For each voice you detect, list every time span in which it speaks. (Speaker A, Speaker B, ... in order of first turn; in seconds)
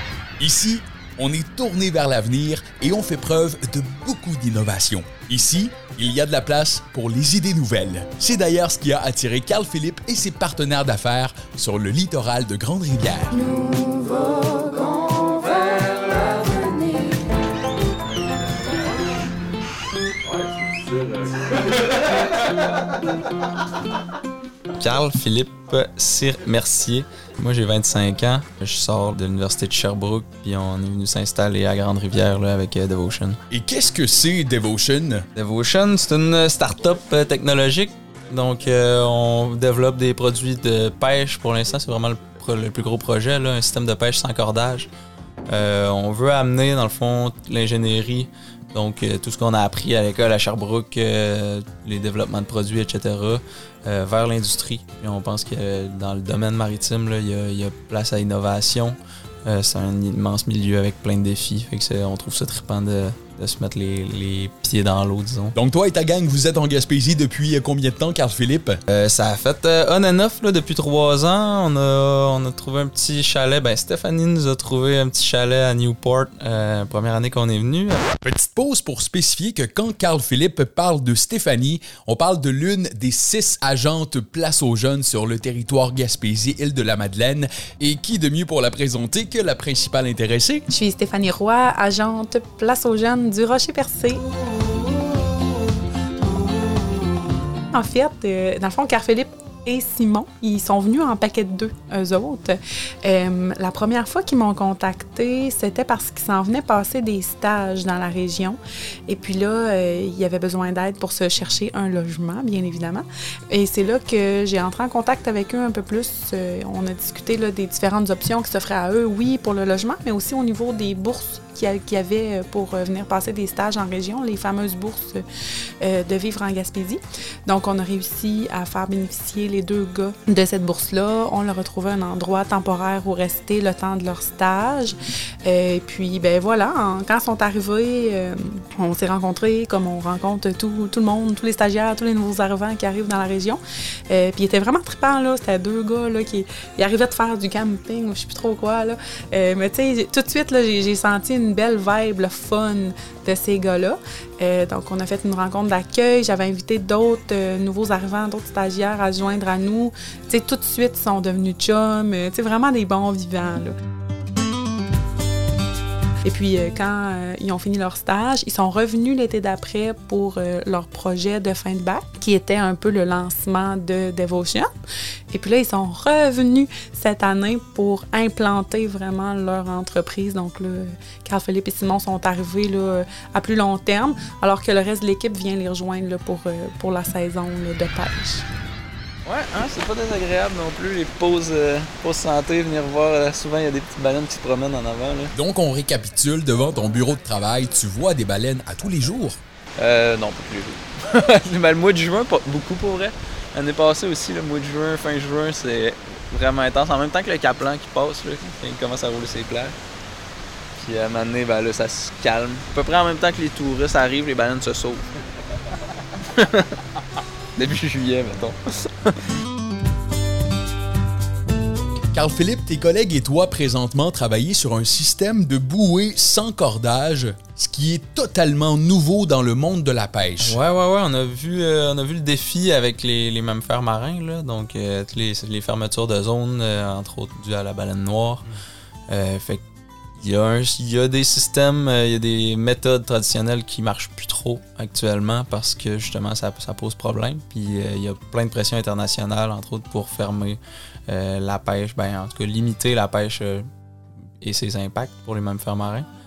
Speaker A: 0.4-13.4, 33.5-35.2, 65.5-68.8, 78.2-90.7, 195.3-199.4, 222.1-230.6
Speaker B: 24.8-33.4, 35.4-44.9, 45.5-65.5, 68.9-78.1, 189.2-195.3, 199.8-209.8, 210.8-215.1, 216.2-216.8, 217.5-219.2, 230.4-238.4, 239.1-239.6, 240.2-253.7, 254.4-256.1
Speaker C: 90.7-94.2, 97.7-125.2, 125.8-163.7, 166.2-174.7, 175.3-188.4